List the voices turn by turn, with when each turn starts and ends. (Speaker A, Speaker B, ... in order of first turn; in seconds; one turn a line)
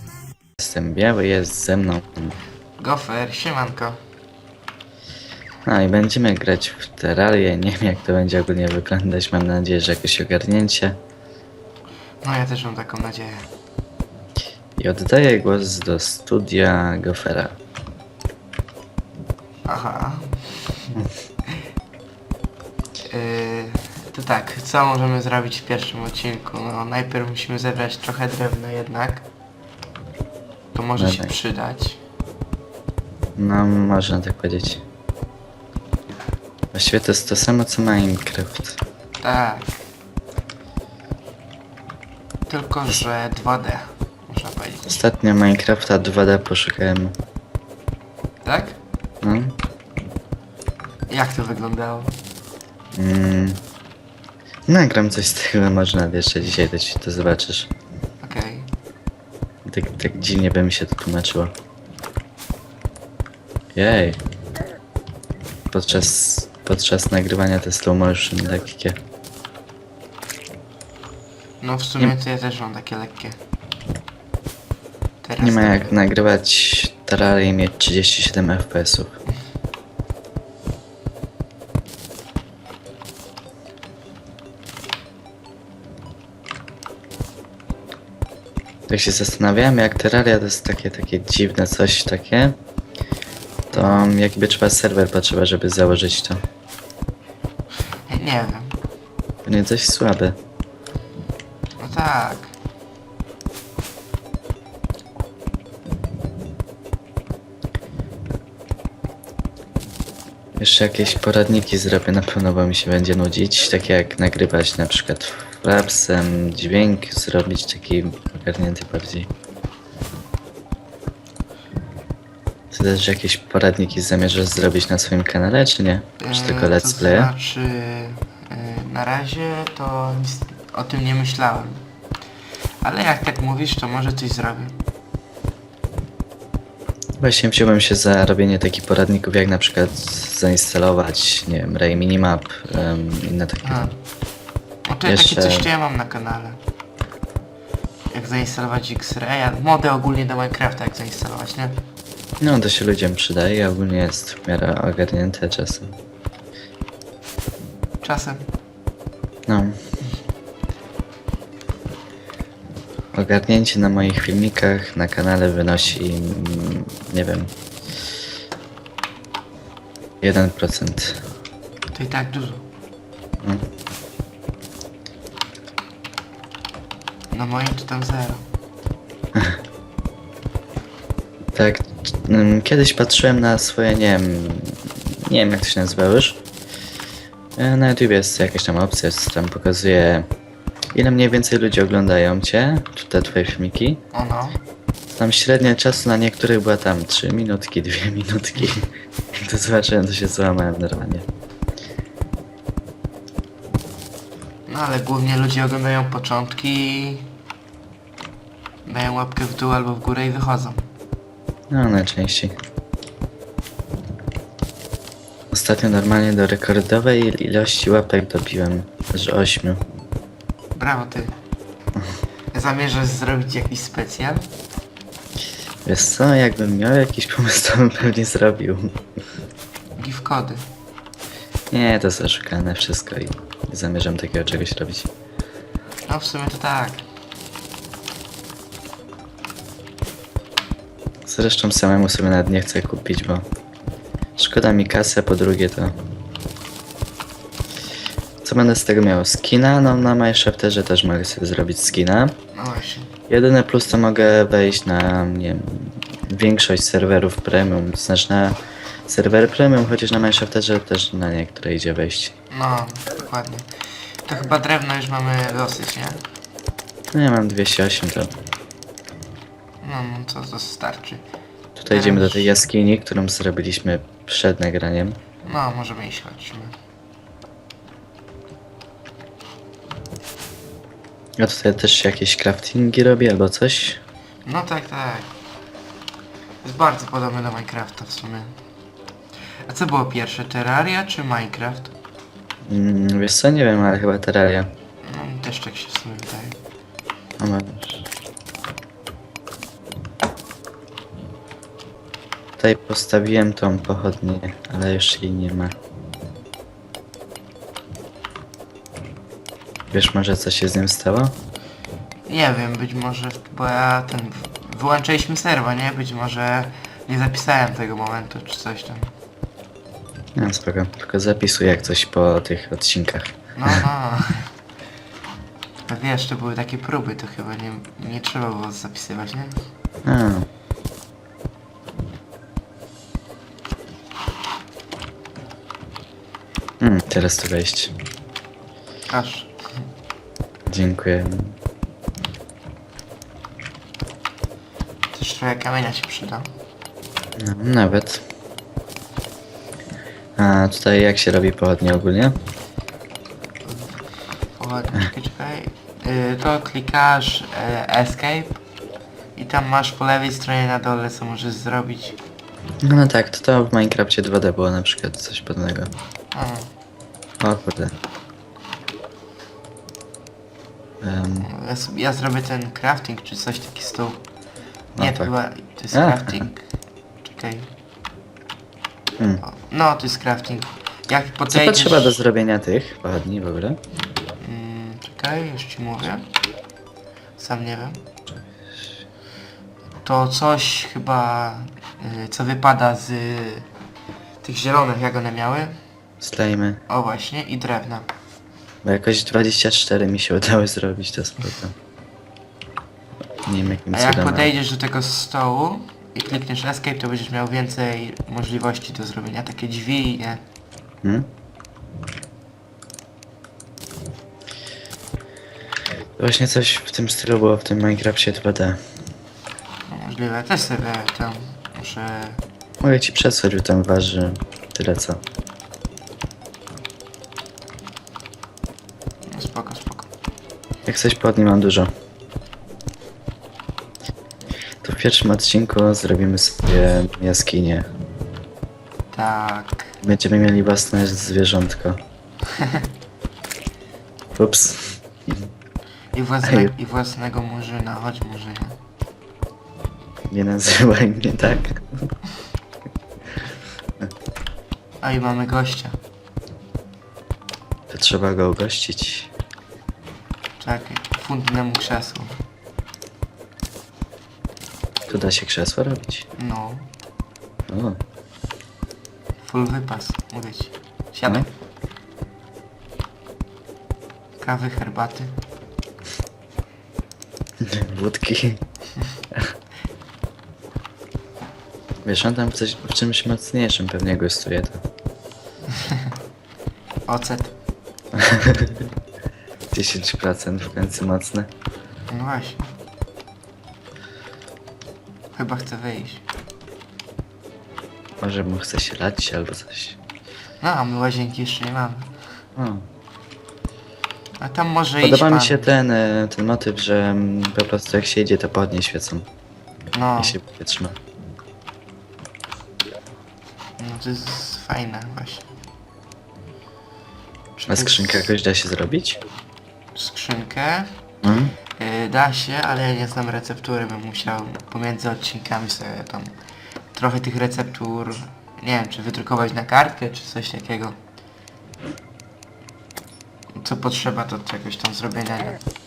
Speaker A: 0.6-2.4
Speaker B: 2.8-4.0
Speaker A: 5.6-11.0
Speaker B: 12.2-13.5
Speaker A: 14.8-17.6
Speaker B: 19.6-20.7
Speaker B: 23.1-29.2
Speaker B: 30.7-32.0
Speaker A: 31.0-31.3
Speaker A: 33.4-34.8
Speaker A: 36.7-38.8
Speaker B: 39.2-39.8
Speaker B: 42.5-45.0
Speaker A: 44.9-47.1
Speaker B: 48.4-48.8
Speaker A: 49.2-49.5
Speaker B: 51.1-52.1
Speaker A: 52.9-53.6
Speaker A: 54.7-57.7
Speaker B: 58.2-58.7
Speaker A: 59.6-61.5
Speaker A: 63.7-64.2
Speaker A: 65.7-69.0
Speaker B: 71.6-73.4
Speaker B: 75.2-76.0
Speaker A: 75.4-79.2
Speaker A: 88.9-92.5
Speaker B: 93.7-94.1
Speaker A: 93.7-96.4
Speaker B: 98.1-98.8
Speaker A: 99.5-100.4
Speaker B: 101.8-102.5
Speaker A: 110.6-119.3
Speaker A: 122.7-127.3
Speaker B: 126.2-131.8
Speaker B: 132.8-134.8
Speaker A: 137.2-143.9
Speaker B: 143.6-143.9
Speaker B: 144.8-146.6
Speaker A: 145.1-145.7
Speaker B: 148.1-151.8
Speaker A: 152.4-155.9
Speaker B: 158.0-158.4
Speaker A: 159.5-159.8
Speaker A: 163.1-167.5
Speaker A: 170.2-171.2
Speaker B: 171.9-172.6
Speaker B: 177.3-178.4
Speaker A: 181.5-186.4
Speaker A: 187.6-190.3
Speaker A: 190.9-194.0
Speaker B: 194.1-194.6
Speaker A: 195.1-201.2
Speaker B: 204.7-207.3
Speaker B: 208.8-210.9
Speaker A: 211.7-212.5
Speaker A: 215.5-219.8
Speaker B: 220.7-221.3
Speaker B: 222.5-224.5
Speaker A: 225.8-228.9
Speaker B: 230.0-230.6
Speaker A: 231.7-235.1
Speaker B: 236.1-237.0
Speaker A: 241.2-243.4
Speaker A: 244.4-245.9
Speaker A: 248.4-252.3
Speaker B: 252.5-253.1
Speaker A: 253.3-262.3
Speaker B: 262.5-266.2
Speaker A: 267.1-268.3
Speaker B: 269.8-271.2
Speaker A: 271.8-275.2
Speaker B: 271.9-272.5
Speaker B: 275.4-276.7
Speaker A: 281.4-284.0
Speaker B: 284.4-285.3
Speaker B: 286.6-288.5
Speaker B: 289.6-291.9
Speaker A: 292.7-294.7
Speaker B: 295.0-296.6
Speaker A: 297.4-298.0
Speaker A: 302.6-305.7
Speaker A: 309.9-311.3
Speaker B: 312.3-319.1
Speaker A: 320.4-323.8
Speaker B: 323.6-324.5
Speaker B: 325.9-329.6
Speaker A: 330.0-330.5
Speaker A: 336.8-337.9
Speaker B: 339.1-339.5
Speaker A: 340.7-341.5
Speaker B: 345.1-346.5
Speaker A: 347.4-348.2
Speaker A: 350.4-352.4
Speaker B: 353.6-354.0
Speaker B: 354.5-358.6
Speaker B: 359.4-362.2
Speaker A: 362.8-365.9
Speaker B: 366.3-366.7
Speaker A: 367.4-367.9
Speaker A: 371.0-371.5
Speaker B: 371.4-374.2
Speaker A: 374.9-375.3
Speaker B: 374.9-376.6
Speaker A: 375.9-376.5
Speaker B: 377.2-377.7
Speaker B: 379.4-382.1
Speaker A: 381.5-383.8
Speaker B: 384.4-386.2
Speaker B: 387.4-388.0
Speaker B: 390.0-393.7
Speaker B: 394.4-395.7
Speaker A: 396.2-396.8
Speaker B: 396.9-398.1
Speaker A: 398.8-401.7
Speaker A: 403.4-404.5
Speaker B: 403.9-410.4
Speaker A: 416.2-418.8
Speaker B: 419.9-422.4
Speaker A: 422.8-425.2
Speaker B: 429.3-430.1
Speaker A: 430.9-431.9
Speaker A: 434.8-437.9
Speaker B: 439.1-439.9
Speaker A: 440.0-442.0
Speaker B: 442.5-442.9
Speaker A: 444.4-445.5
Speaker B: 446.1-448.8
Speaker A: 446.4-446.7
Speaker A: 450.3-452.1
Speaker B: 455.0-455.9
Speaker A: 457.9-459.3
Speaker B: 460.6-462.4
Speaker A: 465.1-466.3
Speaker B: 466.4-466.9
Speaker A: 467.7-468.0
Speaker B: 469.4-471.5
Speaker B: 474.4-475.3
Speaker A: 477.6-478.6
Speaker A: 482.0-484.8
Speaker B: 485.7-486.1
Speaker B: 487.1-487.5
Speaker A: 488.1-488.9
Speaker A: 489.7-491.5
Speaker B: 492.1-492.7
Speaker B: 495.3-496.2
Speaker A: 498.2-500.0
Speaker B: 500.6-502.1
Speaker A: 502.6-502.8
Speaker B: 504.4-505.7
Speaker A: 505.0-509.2
Speaker B: 509.9-510.4
Speaker A: 510.2-511.0
Speaker B: 513.8-515.5
Speaker B: 517.6-518.3
Speaker A: 517.7-519.2
Speaker B: 519.9-520.9
Speaker A: 521.2-521.5
Speaker B: 521.8-526.3
Speaker B: 526.9-530.9
Speaker B: 533.5-535.6